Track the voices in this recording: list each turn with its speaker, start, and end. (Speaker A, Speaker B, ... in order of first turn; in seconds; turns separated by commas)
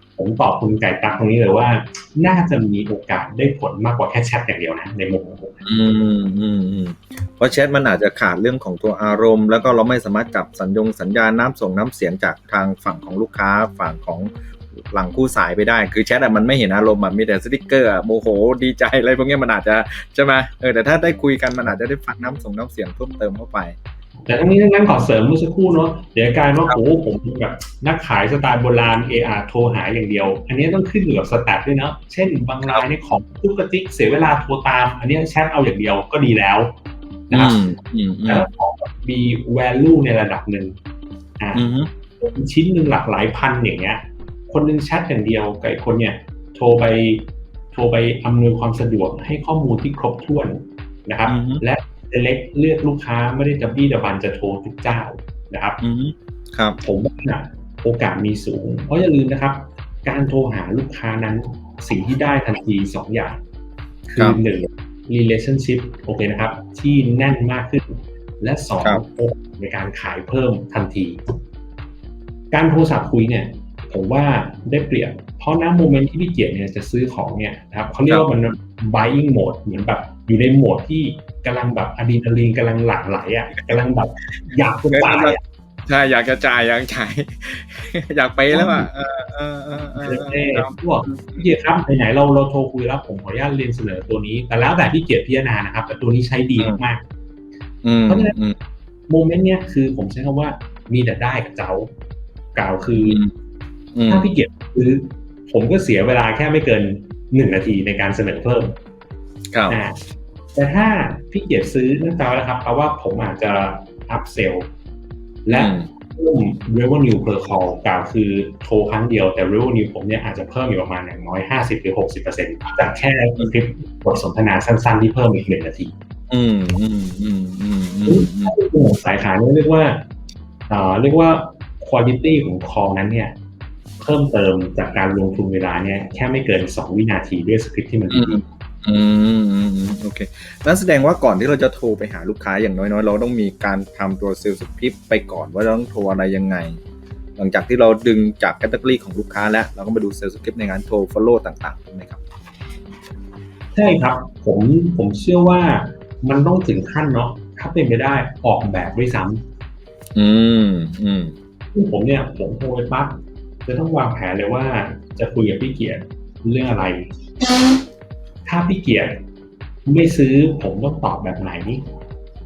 Speaker A: 0.1-5.7, Speaker B: 5.6-23.8, Speaker A: 24.2-36.7, Speaker A: 37.3-37.6, Speaker B: 37.3-38.5, Speaker A: 38.3-40.8, Speaker A: 41.4-41.6, Speaker B: 41.5-41.9, Speaker A: 42.2-55.8, Speaker B: 51.3-51.6, Speaker B: 55.8-56.8, Speaker A: 56.8-63.4, Speaker B: 64.1-64.4, Speaker A: 64.2-71.4, Speaker A: 72.5-85.4, Speaker B: 84.4-91.5, Speaker A: 88.5-88.9, Speaker A: 90.0-97.0, Speaker B: 97.8-98.5, Speaker A: 98.1-98.3, Speaker A: 99.1-101.9, Speaker A: 102.5-103.2, Speaker B: 103.0-103.3, Speaker B: 103.9-104.3, Speaker A: 104.1-108.7, Speaker B: 109.5-109.8, Speaker A: 109.7-110.0, Speaker A: 110.5-114.7, Speaker A: 115.4-125.9, Speaker B: 115.5-115.9, Speaker B: 126.3-128.6, Speaker A: 128.1-130.0, Speaker A: 130.7-133.3, Speaker A: 134.0-138.4, Speaker B: 138.1-146.8, Speaker B: 147.4-152.2, Speaker A: 153.7-159.4, Speaker B: 160.1-161.3, Speaker A: 161.7-167.1, Speaker A: 168.4-169.2, Speaker A: 169.8-171.8